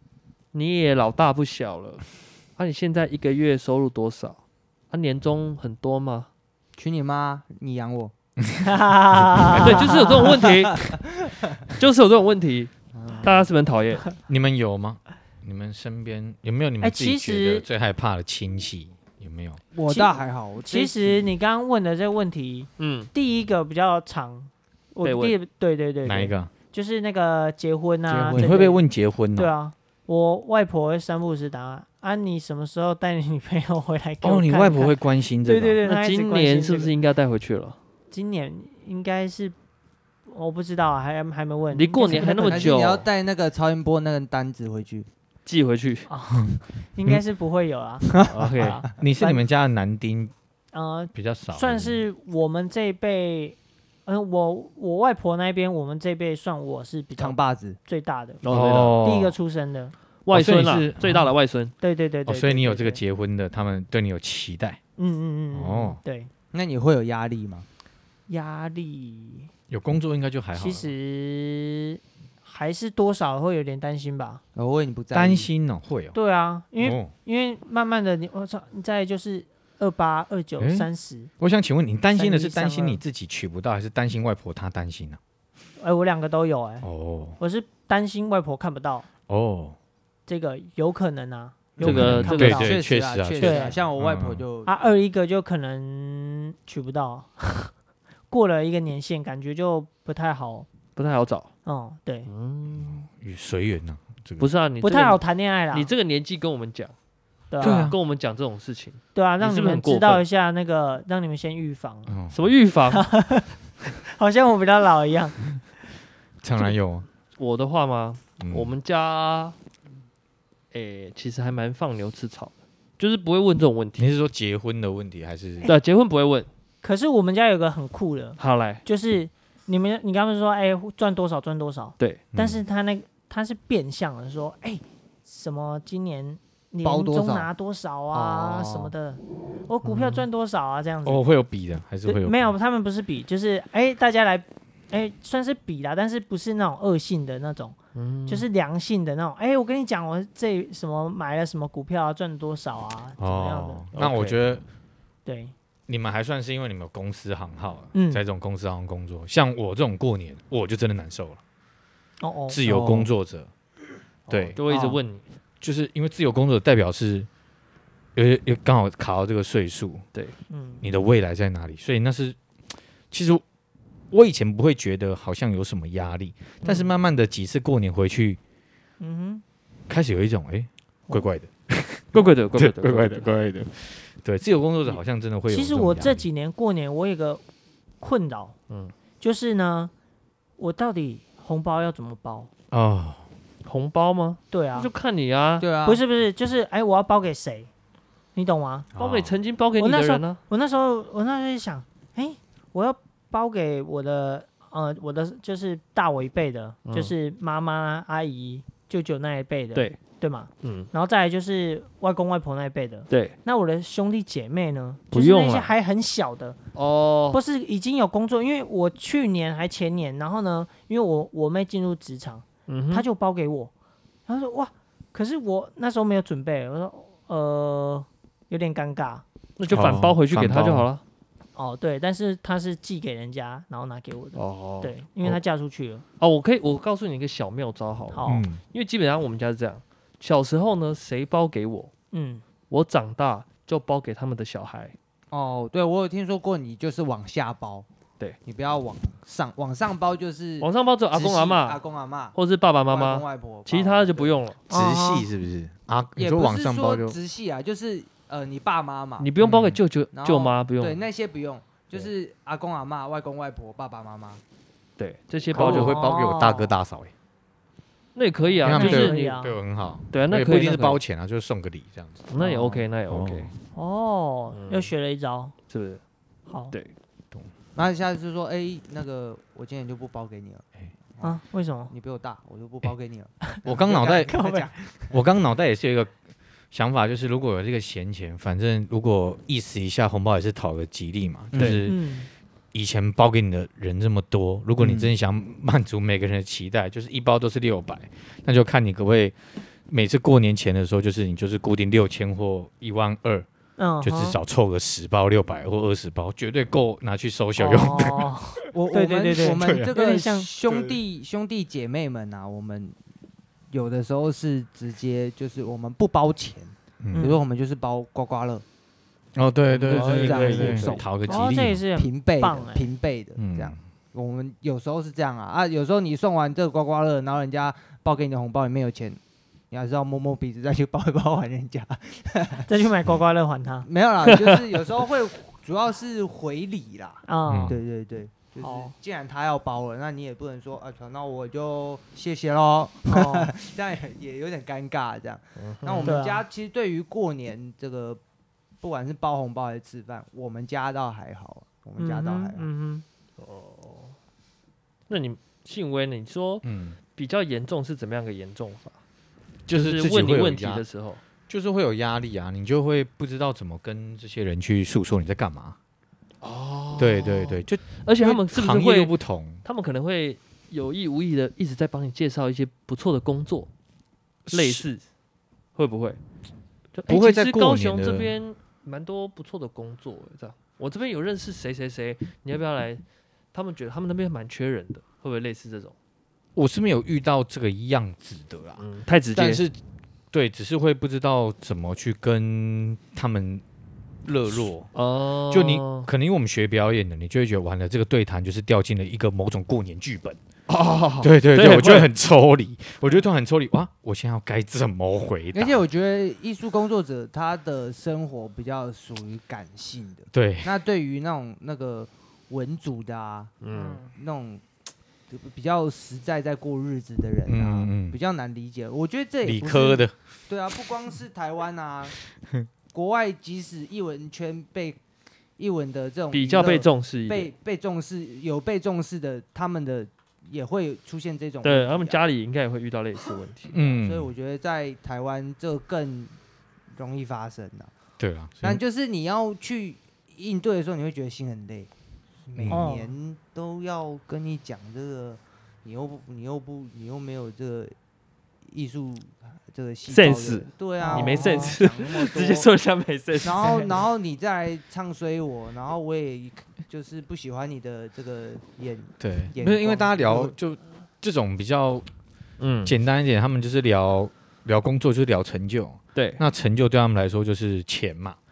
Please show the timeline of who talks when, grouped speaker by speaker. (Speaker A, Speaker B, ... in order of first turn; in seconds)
Speaker A: 0.5-4.4, 4.9-6.3, 9.6-10.9, 11.6-12.7, 13.2-14.1, 22.8-23.1, 25.0-25.4, 35.8-37.8, 41.7-43.1, 45.5-46.1, 48.3-48.8, 58.4-59.1, 60.2-61.7, 91.8-92.8, 101.0-101.5, 102.3-103.0, 104.4-105.2, 105.7-106.9, 107.6-110.2, 112.3-113.0, 117.4-119.5, 120.7-124.1, 125.6-126.5, 128.4-128.8, 139.8-140.3, 147.9-148.5, 153.9-154.4, 164.3-165.2, 182.1-183.3, 193.6-195.7, 199.0-200.4, 206.9-207.1, 210.6-210.9, 213.1-213.3, 215.1-215.7, 216.8-217.4, 222.7-223.1, 229.6-231.0, 234.4-234.9, 236.2-241.9, 242.7-244.9, 250.6-251.8, 252.3-254.6, 259.2-261.1, 265.0-266.0, 268.1-269.4, 270.1-271.0, 272.3-273.5, 274.5-274.9, 275.7-276.0, 319.9-321.0, 334.2-334.7, 345.6-346.2, 353.4-354.1, 355.1-356.6, 357.2-358.9, 359.7-361.2, 366.4-369.1, 369.6-373.7, 374.5-375.0, 375.8-376.2, 376.9-383.0, 383.5-385.9, 388.8-389.6, 394.9-396.1, 400.7-402.1, 413.6-414.0, 426.3-427.5, 431.6-433.8, 450.1-454.0, 462.6-462.9, 466.1-466.4
Speaker B: 6.8-8.1, 10.2-11.4, 12.9-13.3, 19.7-21.2, 28.1-28.7, 42.5-45.1, 48.1-48.7, 57.2-57.8, 66.5-67.7, 74.5-75.5, 91.8-94.7, 136.8-137.5, 138.1-138.9, 164.3-165.0, 195.6-196.0, 245.3-247.9, 248.4-252.4, 252.9-254.3, 256.2-259.3, 260.1-264.4, 277.8-285.2, 291.5-291.8, 294.8-295.1, 308.7-313.0, 313.7-318.6, 319.7-321.4, 322.0-329.2, 329.7-332.7, 333.9-348.2, 348.8-352.7, 389.4-389.6, 405.5-413.6, 414.1-414.6, 415.3-422.1, 422.9-425.0, 425.6-432.2, 433.8-436.3, 436.9-437.9, 438.6-441.9, 442.5-447.9, 448.7-452.7, 453.4-460.5
Speaker C: 8.4-10.1, 14.3-19.6, 26.1-26.5, 28.3-29.5, 34.2-35.8, 46.3-47.2, 49.0-50.3, 51.1-52.0, 58.5-59.4, 60.3-61.3, 62.3-64.8, 65.5-66.0, 69.7-70.9, 75.1-76.2, 76.8-77.1, 80.6-80.9, 81.4-85.2, 86.8-87.4, 89.3-89.8, 91.8-94.4, 102.7-104.5, 107.6-108.0, 112.1-112.5, 116.4-117.1, 118.4-118.7, 124.0-125.7, 132.3-132.6, 141.1-142.5, 153.2-154.6, 155.9-161.4, 162.5-163.5, 165.6-167.3, 168.2-170.0, 170.8-172.4, 173.1-173.4, 174.1-178.4, 179.9-186.2, 192.7-193.2, 198.9-199.4, 229.7-230.9, 238.3-238.6, 254.7-257.2, 259.4-259.8, 265.5-267.1, 268.6-273.6, 283.6-284.4, 285.1-286.1, 286.7-292.0, 292.7-299.4, 299.9-303.5, 304.0-308.3, 309.4-309.9, 310.6-311.0, 317.0-317.3, 319.4-321.8, 323.4-323.8, 337.5-337.8, 356.6-357.0, 359.7-360.9, 361.5-365.8, 366.9-369.6, 374.5-374.9, 377.1-378.3, 386.6-388.8, 389.3-389.8, 390.3-393.6, 394.2-394.9, 395.5-400.4, 401.2-405.8, 410.3-410.8, 417.5-418.2, 419.4-420.1, 433.7-434.3, 438.2-438.8, 442.6-442.9, 459.2-462.1, 462.8-468.4
Speaker D: 8.6-10.2, 16.8-17.7, 19.9-28.8, 29.3-36.9, 38.1-39.5, 40.3-42.8, 46.1-49.4, 50.7-58.4, 59.0-60.0, 61.8-63.0, 65.0-66.3, 68.3-69.5, 70.5-74.4, 76.1-81.3, 82.1-83.0, 85.8-86.9, 87.4-89.1, 90.3-92.7, 93.4-93.8, 94.7-97.7, 98.3-100.7, 101.7-102.3, 104.8-105.9, 107.5-107.9, 109.2-112.1, 112.9-113.5, 114.0-115.4, 126.8-141.2, 142.1-147.8, 148.3-153.8, 155.2-155.5, 157.9-158.2, 162.2-163.1, 170.5-170.8, 176.6-176.9, 179.0-179.4, 185.5-187.4, 188.0-188.6, 189.2-189.9, 190.6-192.5, 194.5-194.9, 195.8-197.7, 198.3-198.9, 199.8-216.6, 217.3-223.7, 224.3-229.2, 231.6-236.0, 238.1-238.5, 242.1-242.4, 254.7-255.3, 265.6-266.7, 268.6-269.6, 273.7-275.5, 276.5-276.7, 281.2-281.9, 284.3-284.7, 291.8-292.3, 303.8-304.4, 307.6-310.5, 317.1-317.4, 321.3-322.9, 332.7-333.9, 337.3-337.8, 338.6-338.9, 343.1-343.5, 346.1-346.4, 352.0-353.0, 413.7-414.1, 442.7-443.1, 451.0-451.8, 453.6-454.0